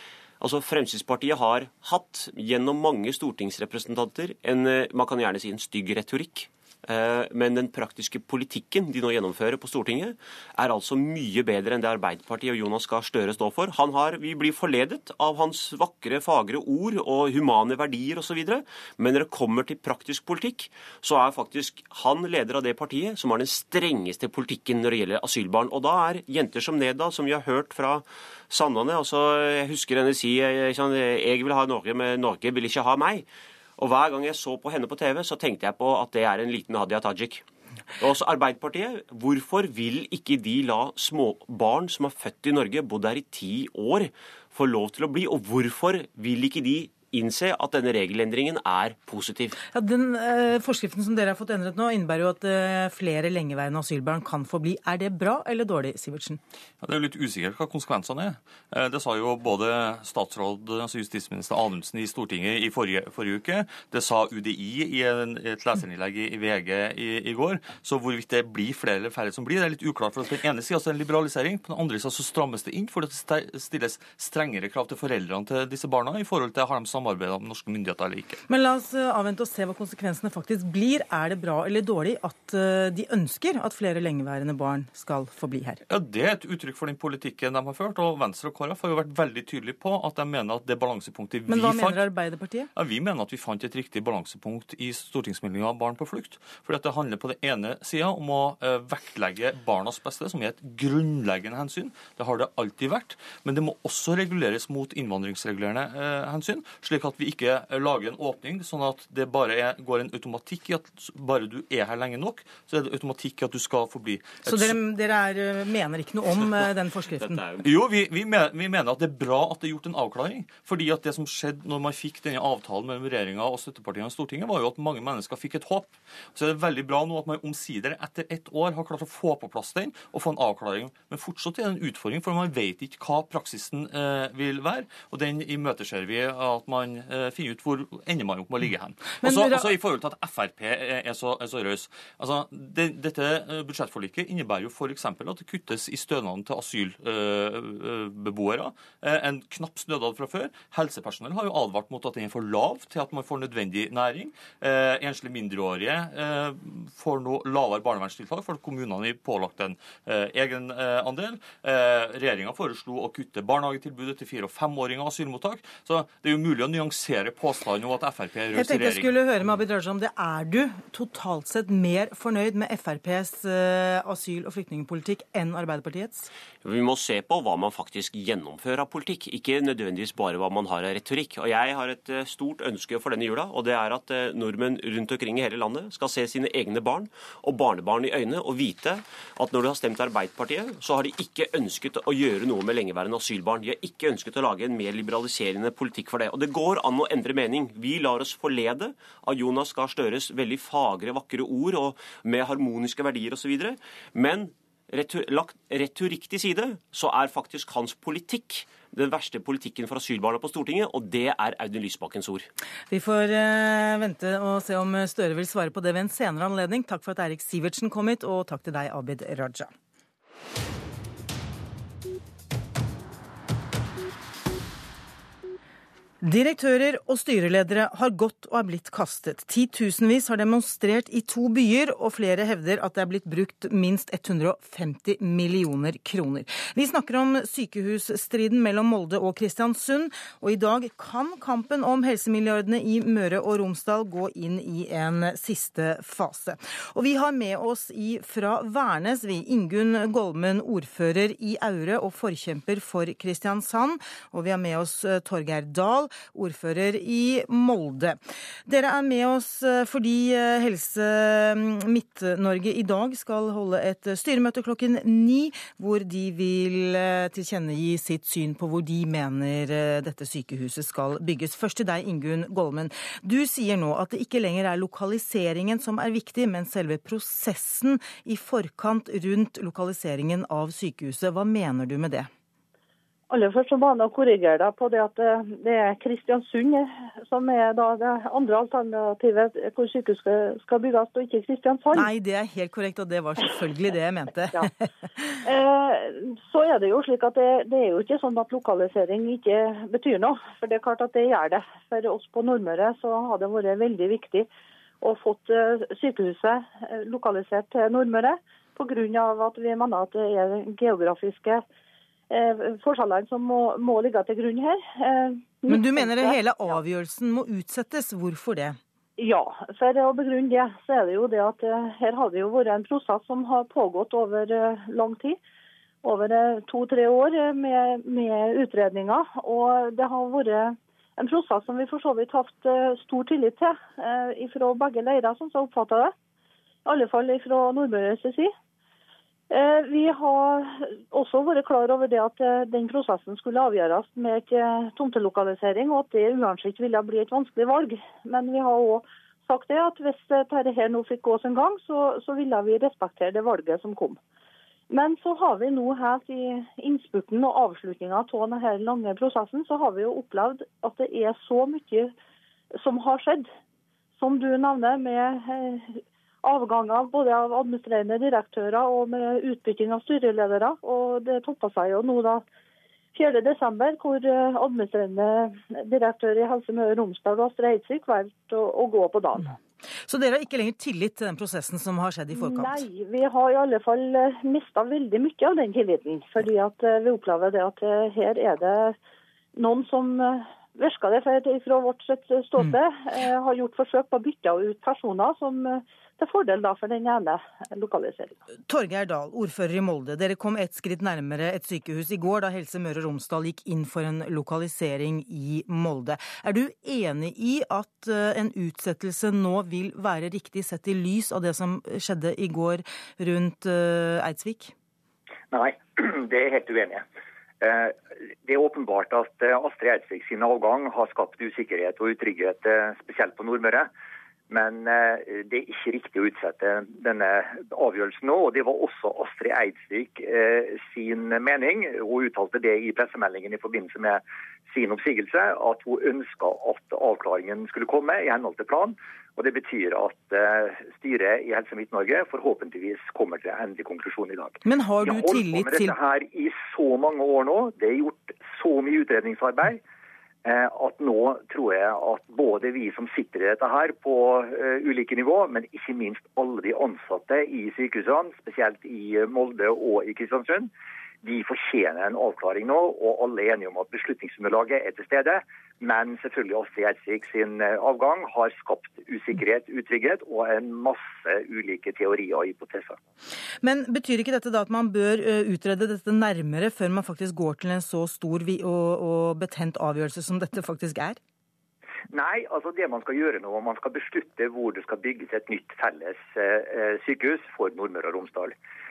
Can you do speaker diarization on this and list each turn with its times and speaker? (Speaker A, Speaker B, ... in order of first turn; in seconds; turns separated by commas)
Speaker A: 0.4-33.2, Speaker A: 33.8-37.4, Speaker A: 38.0-49.6, Speaker B: 49.7-56.4, Speaker C: 56.8-78.4, Speaker B: 78.5-85.8, Speaker C: 85.9-92.1, Speaker B: 91.5-92.7, Speaker C: 92.8-114.8, Speaker B: 114.4-117.5, Speaker A: 117.2-117.6, Speaker C: 117.6-169.2, Speaker B: 139.1-139.7, Speaker B: 168.6-176.3, Speaker A: 176.6-212.5, Speaker B: 212.9-219.7, Speaker B: 226.2-282.3, Speaker D: 283.3-292.1, Speaker B: 291.9-294.9, Speaker D: 295.5-304.5, Speaker D: 305.0-311.6, Speaker D: 312.3-316.4, Speaker B: 315.7-318.8, Speaker D: 319.2-325.4, Speaker D: 326.0-336.1, Speaker D: 336.9-338.5, Speaker D: 339.5-354.2, Speaker D: 354.9-362.1, Speaker D: 362.8-363.5, Speaker D: 364.2-372.4, Speaker D: 373.1-379.6, Speaker B: 380.0-382.9, Speaker D: 382.4-389.0, Speaker D: 389.6-398.4, Speaker B: 398.7-414.7, Speaker E: 415.5-417.0, Speaker E: 417.6-423.9, Speaker E: 424.5-449.8, Speaker B: 444.6-446.0, Speaker E: 450.4-460.7, Speaker E: 461.2-473.0, Speaker B: 473.6-481.2, Speaker E: 482.1-488.5